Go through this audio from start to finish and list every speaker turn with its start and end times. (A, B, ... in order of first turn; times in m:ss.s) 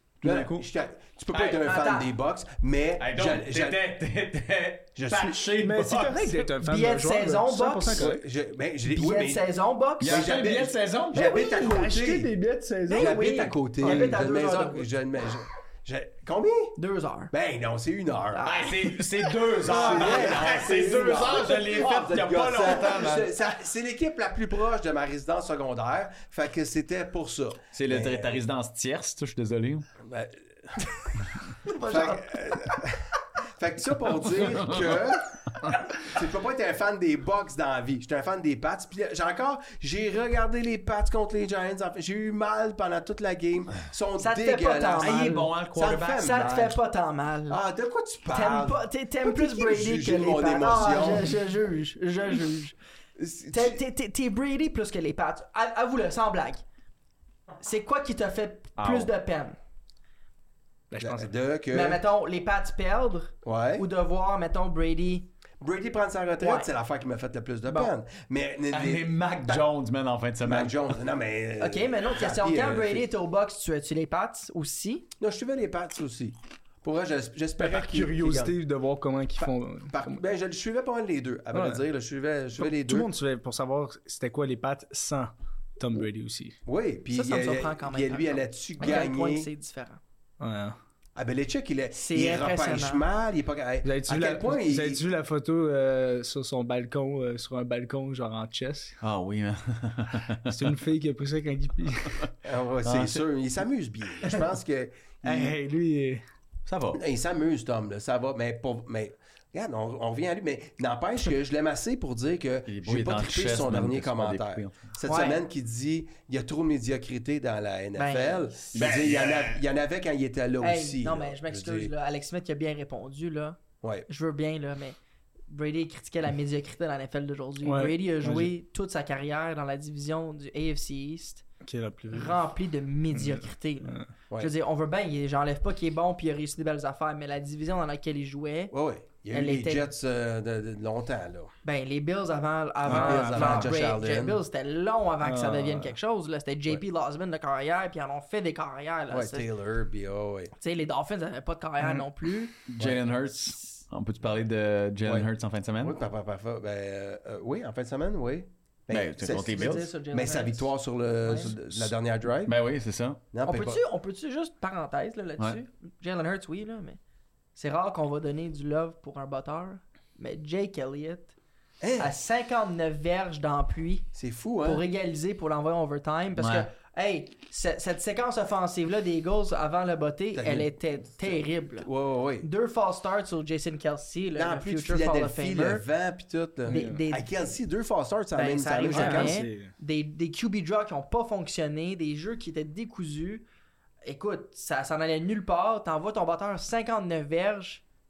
0:00.2-0:00.6 A
0:00.2-0:03.8 B
0:01.3-0:02.1 C
0:03.0-0:06.5 A
0:05.0-0:05.4 B
0:05.6-0:08.2 D
0:06.6-0:08.1 C
0:07.9-0:09.4 B
0:08.9-0:10.3 C
0:10.0-0:11.2 A
0:10.0-0:12.3 B
0:11.1-0:14.2 D
0:12.9-0:14.9 C
0:12.9-0:16.8 B
0:16.8-0:17.3 C
0:17.3-0:18.9 B
0:18.3-0:18.7 C
0:18.4-0:23.4 A
0:19.5-0:28.4 B
0:19.7-0:20.3 C
0:27.7-0:29.9 A
0:30.0-0:31.1 B
0:31.6-0:32.3 C
0:31.7-0:35.4 B
0:34.5-0:34.8 A
0:35.9-0:46.8 B
0:44.2-0:45.5 C
0:45.0-0:46.4 A
0:46.1-0:47.6 C
0:47.5-0:51.4 B
0:48.3-0:52.8 C
0:53.2-0:53.8 B
0:53.5-0:56.6 C
0:57.6-0:59.6 C
0:58.8-0:59.1 A
1:00.9-1:01.3 D
1:01.0-1:02.0 B
1:01.7-1:05.3 C
1:03.4-1:03.8 B
1:05.6-1:09.6 B
1:06.4-1:06.7 C
1:07.7-1:07.9 C
1:08.7-1:10.8 A
1:10.4-1:13.1 B
1:11.6-1:15.1 C
1:15.2-1:18.6 B
1:17.6-1:20.2 D
1:19.4-1:23.1 B
1:21.5-1:21.8 D
1:22.6-1:26.6 D
1:26.6-1:29.5 B
1:27.1-1:30.0 C
1:30.4-1:30.8 D
1:31.2-1:35.0 B
1:31.9-1:33.0 C
1:33.8-1:39.0 D
1:39.0-1:40.7 A
1:40.5-1:42.3 D
1:42.4-1:45.6 B
1:45.2-1:46.2 D
1:46.6-1:47.0 A
1:46.9-2:01.9 B
1:52.7-1:54.8 A
1:55.0-1:55.4 C
1:58.0-1:58.5 C
1:58.7-1:59.6 A
2:00.6-2:05.0 C
2:03.8-2:04.1 B
2:05.5-2:11.4 C
2:07.6-2:08.5 D
2:11.6-2:12.4 D
2:12.1-2:18.7 C
2:13.1-2:14.1 D
2:18.7-2:21.5 B
2:19.3-2:19.9 C
2:21.6-2:29.5 C
2:22.8-2:24.4 B
2:22.8-2:23.7 D
2:25.2-2:25.9 D
2:29.1-2:30.5 B
2:30.6-2:32.5 C
2:32.7-2:36.0 A
2:35.8-2:42.6 B
2:38.9-2:39.9 A
2:39.4-2:41.5 C
2:42.4-2:43.2 A
2:43.3-2:43.8 B
2:43.4-2:47.0 C
2:47.5-2:51.3 C
2:51.8-2:52.1 B
2:52.0-2:54.1 C
2:54.1-2:54.8 B
2:54.6-3:01.9 C
2:56.4-2:56.7 A
3:00.3-3:02.5 B
3:02.4-3:05.8 C
3:04.3-3:09.4 B
3:06.6-3:07.2 C
3:06.7-3:07.0 D
3:08.3-3:13.4 C
3:08.9-3:09.7 D
3:14.0-3:17.8 C